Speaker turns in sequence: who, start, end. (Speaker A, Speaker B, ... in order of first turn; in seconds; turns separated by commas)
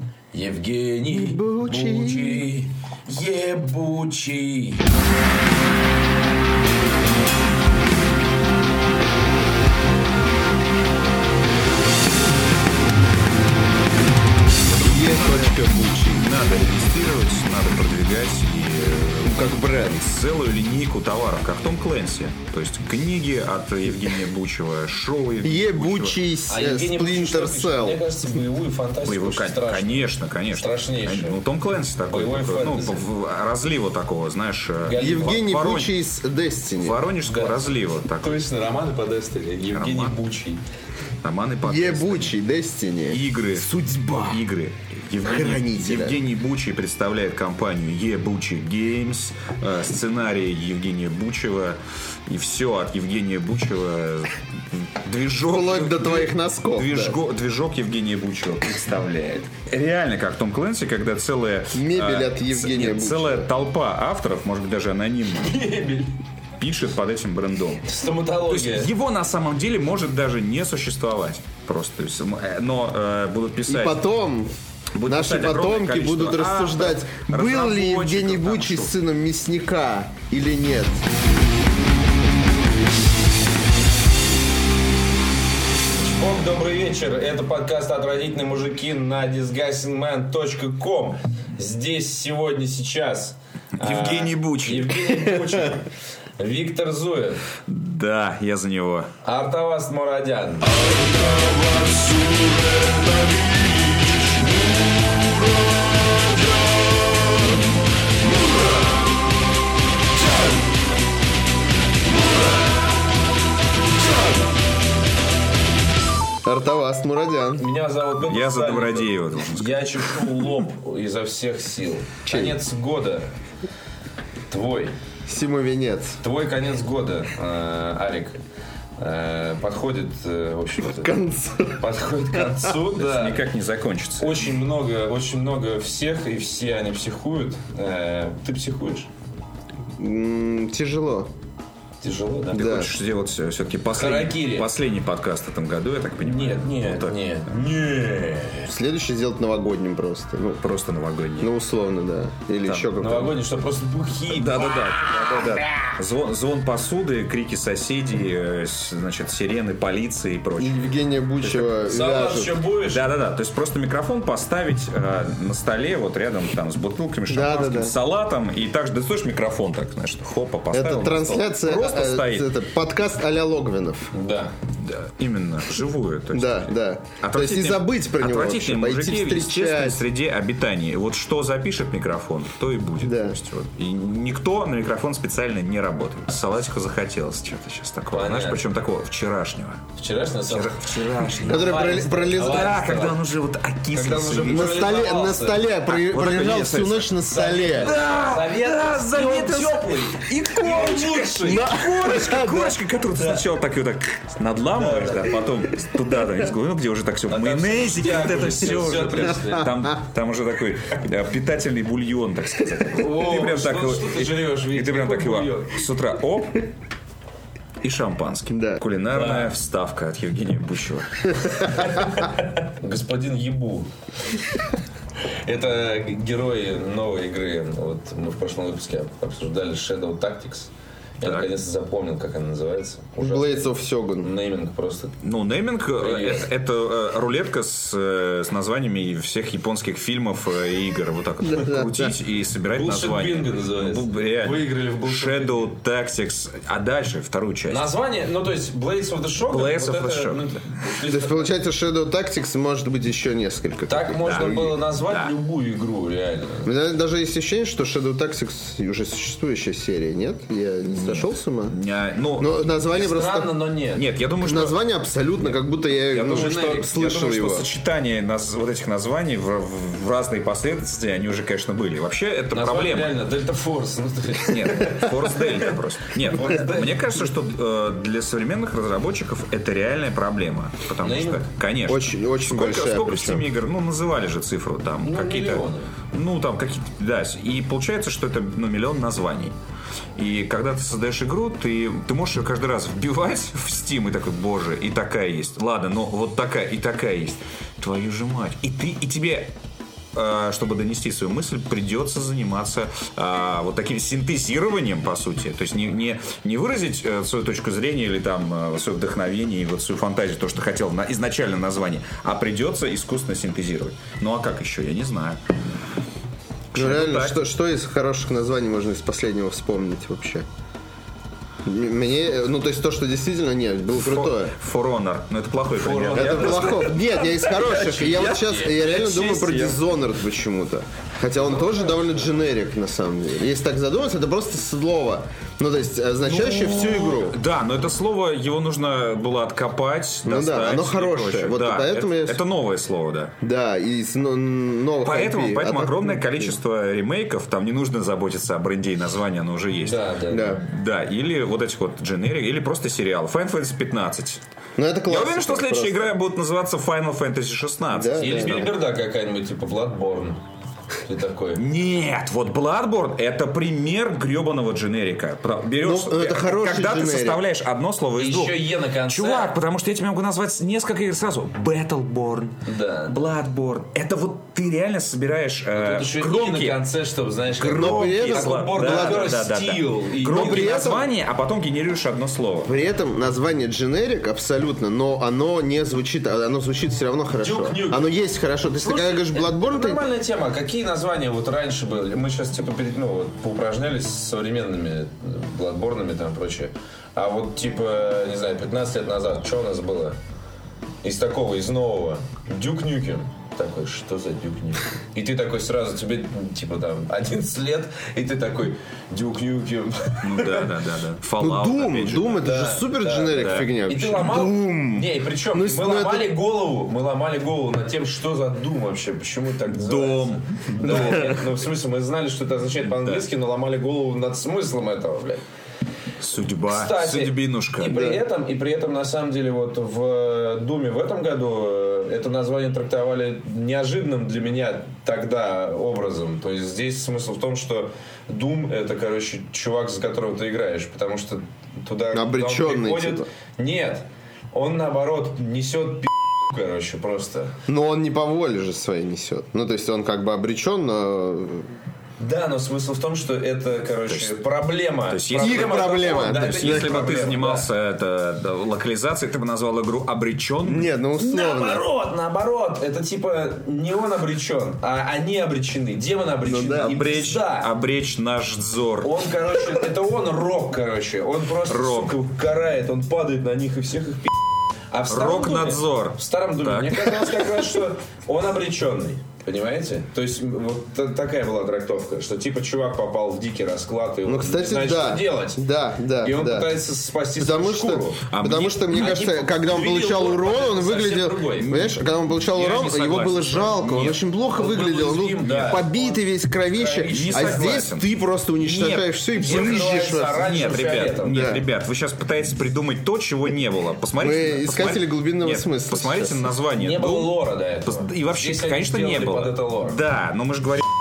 Speaker A: 0.3-4.8, Speaker B: 1.1-2.4, Speaker C: 14.7-26.2, Speaker B: 14.8-16.3, Speaker B: 19.2-20.0, Speaker B: 25.4-28.0, Speaker A: 26.5-31.4, Speaker C: 29.1-36.0, Speaker A: 32.1-33.0, Speaker A: 34.8-35.5, Speaker B: 35.0-37.0, Speaker C: 36.8-38.5, Speaker A: 37.2-40.6, Speaker C: 39.7-40.2, Speaker C: 41.2-42.3, Speaker B: 41.6-44.4, Speaker C: 43.1-65.6, Speaker B: 45.2-46.2, Speaker B: 55.4-57.2, Speaker B: 61.7-63.5, Speaker A: 65.4-66.1, Speaker C: 66.6-67.8, Speaker A: 67.8-68.9, Speaker C: 68.5-74.0, Speaker B: 73.7-74.5, Speaker C: 75.0-78.9, Speaker B: 75.1-81.0, Speaker A: 86.0-97.5, Speaker C: 93.8-95.4, Speaker C: 97.7-99.1, Speaker A: 99.2-100.9, Speaker C: 100.9-102.4, Speaker B: 116.4-117.6, Speaker A: 117.6-123.3, Speaker C: 118.2-120.2, Speaker B: 122.3-122.6, Speaker A: 124.5-125.0, Speaker B: 125.3-126.2, Speaker A: 126.2-128.4, Speaker A: 129.0-131.1, Speaker B: 130.8-131.8, Speaker A: 131.8-133.4, Speaker C: 132.9-134.4, Speaker A: 134.2-139.1, Speaker B: 140.0-141.3, Speaker A: 142.0-142.7, Speaker B: 142.5-142.9, Speaker C: 142.5-147.2, Speaker A: 143.9-144.7, Speaker A: 146.2-148.7, Speaker B: 148.7-150.7, Speaker C: 150.6-151.5, Speaker B: 151.4-153.4, Speaker A: 153.0-155.4, Speaker C: 154.3-161.7, Speaker B: 160.6-162.6, Speaker A: 161.8-163.0, Speaker C: 162.9-172.5, Speaker B: 167.3-167.9, Speaker B: 170.7-174.1, Speaker A: 174.1-174.5, Speaker C: 174.8-189.8, Speaker B: 176.3-180.0, Speaker B: 183.0-183.4, Speaker A: 188.1-188.6, Speaker A: 190.0-193.2, Speaker C: 190.5-191.8, Speaker B: 191.4-192.7, Speaker C: 192.3-194.8, Speaker A: 193.9-195.7, Speaker B: 194.4-198.0, Speaker C: 195.9-197.1, Speaker A: 197.3-201.8, Speaker C: 197.7-216.6, Speaker B: 201.5-202.7, Speaker A: 203.2-203.4, Speaker A: 204.8-205.4, Speaker A: 207.3-209.7, Speaker A: 212.9-215.8, Speaker C: 217.8-222.0, Speaker B: 218.5-218.8, Speaker A: 219.1-219.5, Speaker A: 221.6-223.9, Speaker A: 225.4-230.7, Speaker A: 231.2-233.6, Speaker C: 231.2-231.5, Speaker B: 233.2-234.3, Speaker A: 234.2-235.2, Speaker C: 235.2-247.9, Speaker A: 236.0-236.5, Speaker B: 241.4-242.1, Speaker A: 242.7-245.7, Speaker A: 247.7-251.5, Speaker C: 249.5-250.5, Speaker B: 251.0-254.8, Speaker A: 253.9-256.7, Speaker C: 254.2-255.3, Speaker B: 256.6-261.8, Speaker C: 260.9-262.6, Speaker B: 262.4-263.5, Speaker A: 262.9-264.0, Speaker C: 263.9-264.8, Speaker B: 264.4-267.7, Speaker C: 266.1-273.2, Speaker A: 266.2-267.1, Speaker A: 272.5-277.0, Speaker C: 274.4-289.5, Speaker A: 281.0-281.4, Speaker B: 281.9-283.4, Speaker A: 285.0-285.9, Speaker C: 290.2-299.5, Speaker C: 300.1-315.4, Speaker C: 316.7-317.4, Speaker B: 316.8-320.4, Speaker B: 321.6-324.6, Speaker C: 323.9-326.9, Speaker A: 325.8-329.8, Speaker B: 326.1-337.4, Speaker C: 329.1-329.6, Speaker A: 331.6-332.1, Speaker C: 336.3-343.3, Speaker B: 340.3-342.4, Speaker B: 343.4-346.6, Speaker C: 345.0-354.4, Speaker A: 349.8-350.6, Speaker B: 350.3-350.6, Speaker B: 354.8-356.1, Speaker C: 355.1-358.6, Speaker B: 357.9-358.7, Speaker A: 358.2-360.4, Speaker A: 361.1-361.6, Speaker C: 361.6-372.6, Speaker B: 365.8-367.4, Speaker A: 368.2-369.6, Speaker A: 372.6-373.2, Speaker C: 373.1-376.8, Speaker A: 375.7-381.0, Speaker C: 377.6-382.7, Speaker B: 377.6-379.3, Speaker B: 380.3-381.1, Speaker B: 382.7-390.0, Speaker A: 387.4-400.2, Speaker A: 401.0-410.7, Speaker C: 410.2-412.4, Speaker B: 411.4-416.3, Speaker A: 412.3-425.4, Speaker C: 413.4-413.7, Speaker C: 419.7-421.4, Speaker C: 423.0-423.2, Speaker C: 426.2-428.1, Speaker A: 426.7-447.6, Speaker B: 442.1-443.3, Speaker B: 447.7-451.7, Speaker A: 452.2-457.7, Speaker C: 455.1-460.9, Speaker B: 455.4-457.0, Speaker B: 460.6-461.8, Speaker A: 461.2-467.7, Speaker B: 466.4-467.0, Speaker C: 466.8-469.1, Speaker A: 469.0-474.4, Speaker C: 471.7-472.2, Speaker A: 474.9-485.6, Speaker C: 475.1-477.2, Speaker B: 484.3-486.7, Speaker A: 486.2-488.2, Speaker B: 487.4-500.4, Speaker C: 488.3-489.3, Speaker A: 488.9-491.9, Speaker C: 491.6-494.2, Speaker A: 494.5-497.9, Speaker C: 495.4-495.8, Speaker C: 497.1-510.9, Speaker A: 499.4-501.5, Speaker B: 501.3-501.6, Speaker B: 504.2-506.5, Speaker A: 506.8-510.0